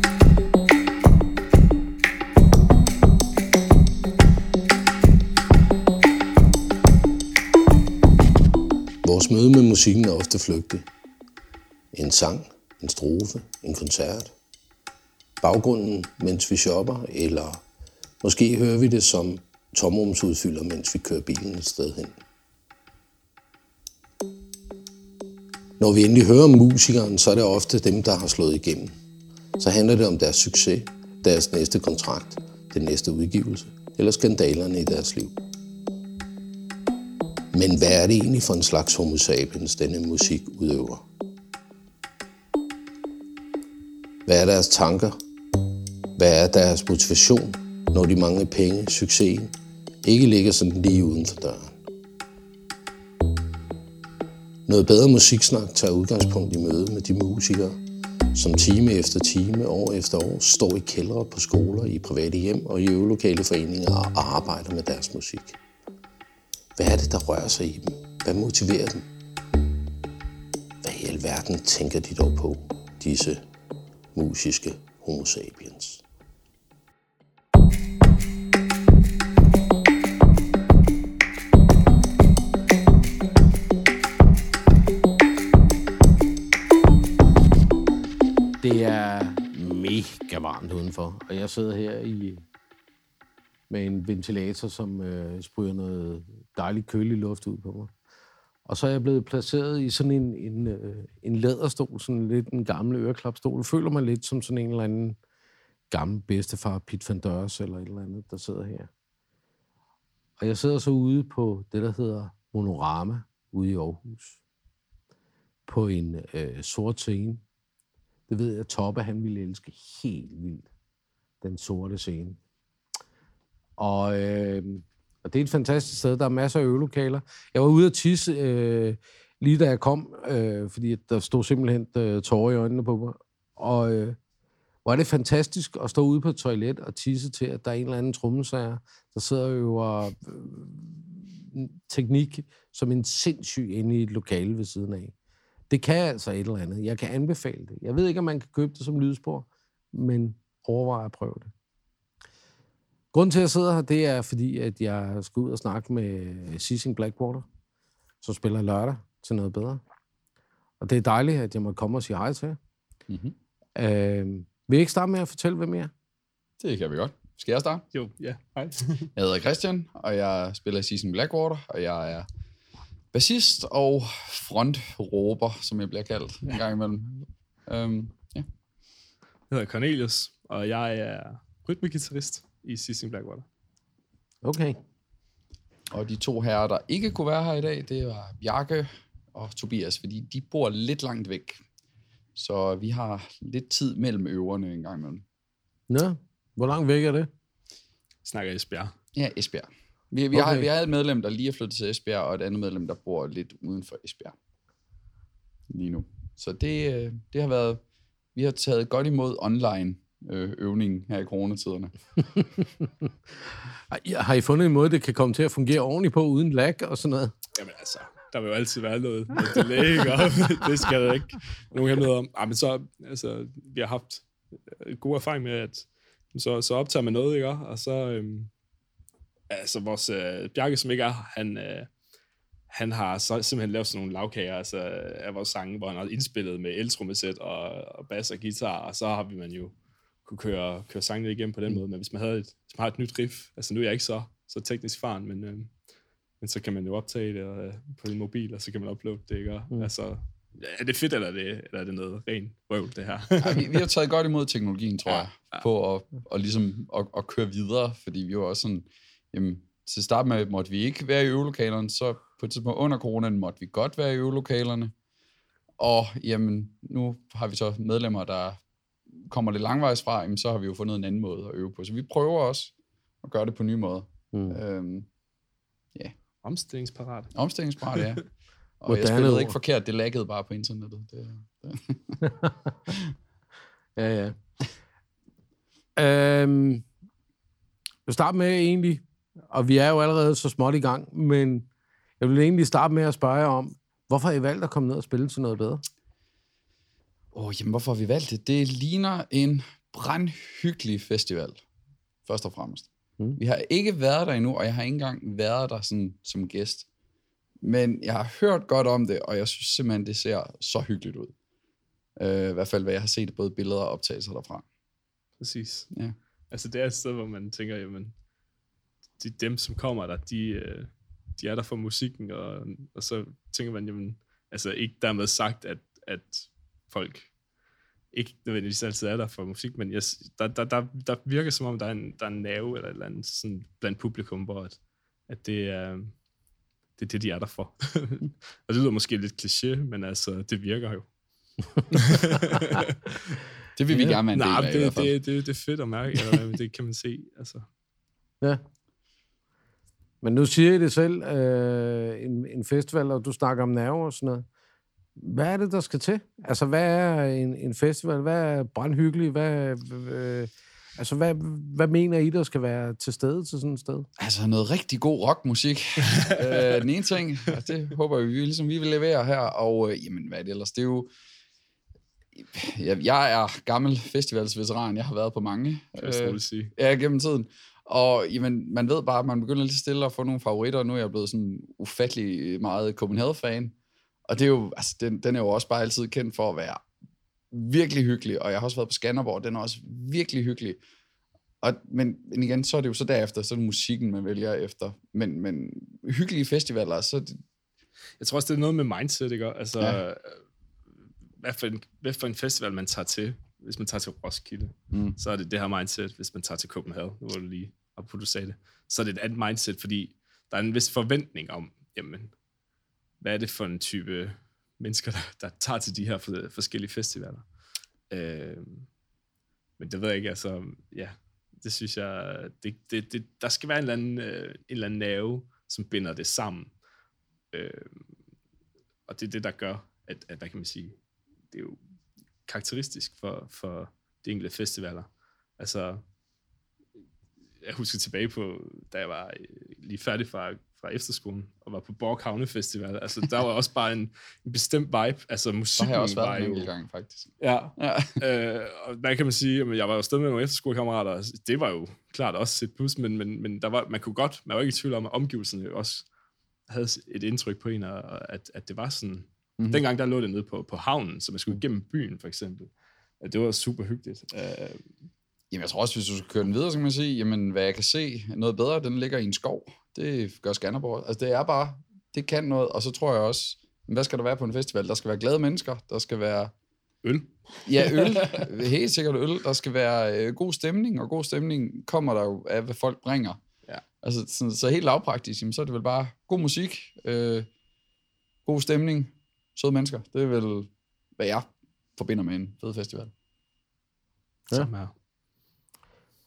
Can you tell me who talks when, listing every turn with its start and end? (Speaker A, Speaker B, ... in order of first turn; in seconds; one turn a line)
Speaker A: 9.0-10.9
Speaker A: 11.9-14.3
Speaker A: 15.4-17.6
Speaker A: 18.2-22.2
Speaker A: 25.8-29.0
Speaker A: 29.6-35.4
Speaker A: 37.5-41.1
Speaker A: 44.3-45.2
Speaker A: 46.2-49.5
Speaker A: 50.0-51.8
Speaker A: 54.7-57.8
Speaker A: 58.3-65.6
Speaker A: 66.8-69.1
Speaker A: 70.8-73.4
Speaker A: 74.1-76.0
Speaker B: 88.6-92.4
Speaker B: 93.7-97.9
Speaker B: 98.7-105.2
Speaker B: 105.9-108.9
Speaker B: 110.4-114.4
Speaker B: 115.7-117.4
Speaker B: 118.3-120.7
Speaker B: 121.4-122.4
Speaker B: 123.8-134.2
Speaker B: 134.8-145.1
Speaker B: 145.7-151.5
Speaker B: 153.1-157.4
Speaker B: 158.2-159.8
Speaker B: 160.8-162.6
Speaker C: 163.1-163.3
Speaker B: 163.8-165.9
Speaker C: 166.6-167.9
Speaker D: 167.9-169.1
Speaker C: 169.2-172.3
Speaker C: 173.1-178.5
Speaker D: 179.5-183.4
Speaker B: 184.4-184.8
Speaker C: 185.9-191.6
Speaker C: 192.4-195.2
Speaker B: 195.9-197.3
Speaker D: 198.2-198.9
Speaker C: 199.2-204.3
Speaker B: 200.3-200.7
Speaker C: 205.7-207.8
Speaker C: 208.3-211.9
Speaker B: 213.9-217.3
Speaker D: 217.6-228.5
Speaker D: 229.5-231.9
Speaker D: 232.7-239.7
Speaker D: 240.2-245.7
Speaker D: 246.4-253.8
Speaker C: 253.4-264.9
Speaker D: 255.1-255.6
Speaker C: 265.8-268.6
Speaker C: 269.3-272.7
Speaker C: 273.2-275.1
Speaker B: 274.3-274.6
Speaker D: 276.4-277.3
Speaker C: 277.4-278.2
Speaker C: 278.8-282.2
Speaker B: 278.9-279.6
Speaker C: 282.9-283.1
Speaker B: 284.0-284.4
Speaker B: 286.0-286.9
Speaker B: 288.1-291.7
Speaker B: 292.2-295.8
Speaker C: 297.3-301.6
Speaker C: 302.3-306.9
Speaker C: 307.6-311.3
Speaker C: 312.2-314.6
Speaker D: 315.4-315.9
Speaker D: 316.5-318.1
Speaker D: 319.2-327.3
Speaker D: 328.1-336.2
Speaker D: 337.0-341.1
Speaker D: 341.9-343.4
Speaker C: 343.8-345.1
Speaker D: 344.1-347.7
Speaker B: 350.2-354.4
Speaker B: 355.2-364.1
Speaker C: 364.2-371.1
Speaker C: 372.4-383.8
Speaker D: 376.0-376.7
Speaker C: 384.3-386.9
Speaker C: 387.5-390.8
Speaker C: 391.6-397.4
Speaker D: 398.2-400.4
Speaker D: 401.4-412.3
Speaker C: 404.9-405.2
Speaker D: 413.2-417.4
Speaker D: 418.1-418.9
Speaker D: 419.8-426.7
Speaker D: 427.5-428.0
Speaker D: 429.1-431.0
Speaker D: 431.5-431.8
Speaker D: 432.5-436.0
Speaker D: 437.6-446.7
Speaker C: 445.8-448.2
Speaker D: 447.4-456.0
Speaker D: 456.7-462.7
Speaker D: 463.2-464.8
Speaker C: 465.5-476.5
Speaker D: 477.0-478.5
Speaker C: 477.7-483.4
Speaker C: 484.0-487.5
Speaker C: 488.5-493.1
Speaker D: 494.5-494.9